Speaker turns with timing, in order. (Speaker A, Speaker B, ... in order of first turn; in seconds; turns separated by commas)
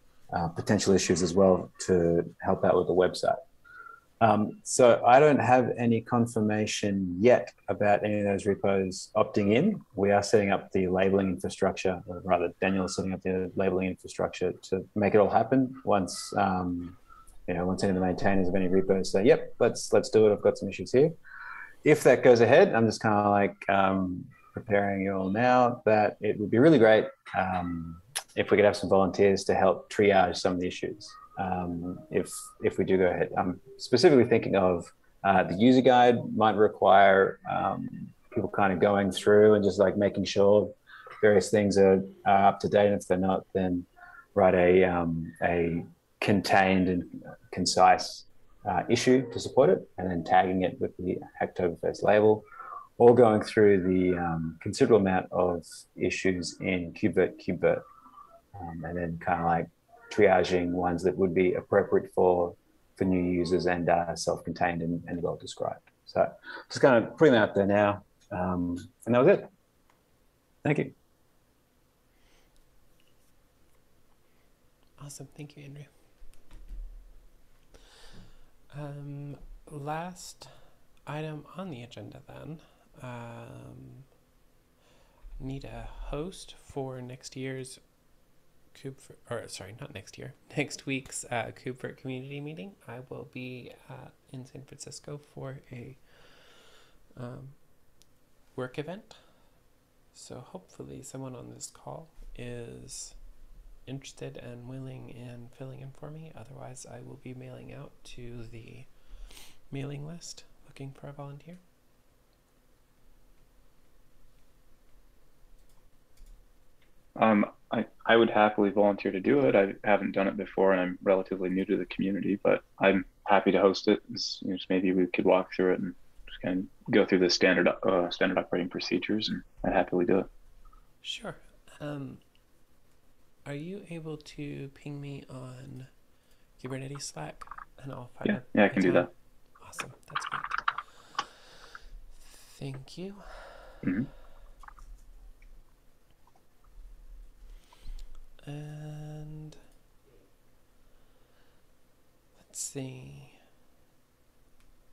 Speaker A: 0.3-3.4, Speaker A: 4.2-21.1, Speaker A: 21.8-52.5, Speaker A: 53.0-57.8, Speaker A: 58.5-69.5, Speaker A: 70.6-70.9, Speaker B: 75.0-75.9, Speaker B: 78.7-84.0, Speaker B: 85.4-88.1, Speaker B: 88.7-99.6, Speaker B: 100.1-103.2, Speaker B: 103.8-111.6, Speaker C: 117.2-130.3, Speaker B: 131.0-132.2, Speaker B: 133.4-135.9, Speaker B: 136.6-141.3, Speaker C: 138.2-139.1, Speaker B: 142.1-143.8, Speaker C: 143.8-144.1, Speaker B: 148.4-149.6, Speaker B: 152.3-153.4